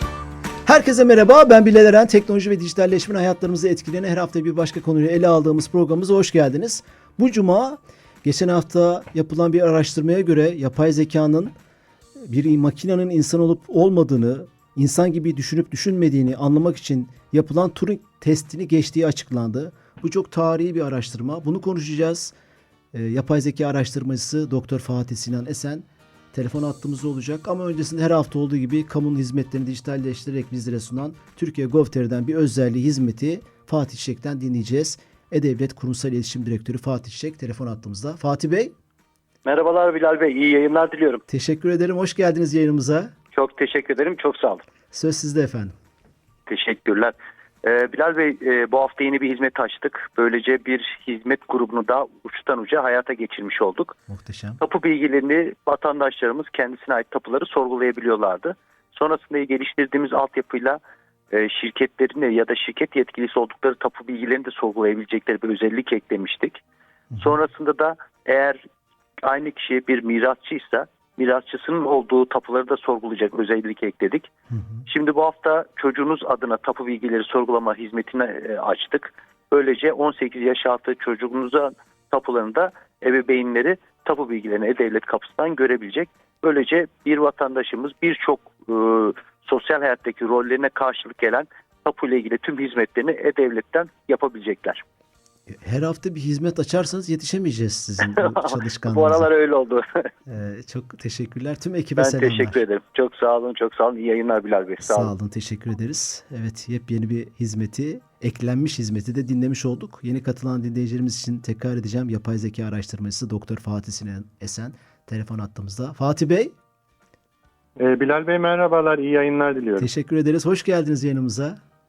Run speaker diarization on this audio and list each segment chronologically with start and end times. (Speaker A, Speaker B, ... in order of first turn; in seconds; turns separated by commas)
Speaker A: 0.7-11.5, Speaker A: 12.2-22.3, Speaker A: 22.9-38.7, Speaker B: 39.5-41.2, Speaker A: 41.3-43.1, Speaker B: 43.3-44.6, Speaker A: 44.9-45.7, Speaker B: 46.5-54.0, Speaker A: 54.1-54.6, Speaker B: 54.6-60.8, Speaker B: 61.3-66.6, Speaker B: 67.2-68.6, Speaker B: 69.2-74.3, Speaker A: 74.5-74.8, Speaker B: 74.9-94.8, Speaker A: 95.5-99.3, Speaker B: 98.0-100.1, Speaker A: 100.3-102.6, Speaker B: 102.0-105.1, Speaker A: 104.8-116.5, Speaker C: 117.8-119.9, Speaker A: 119.8-121.6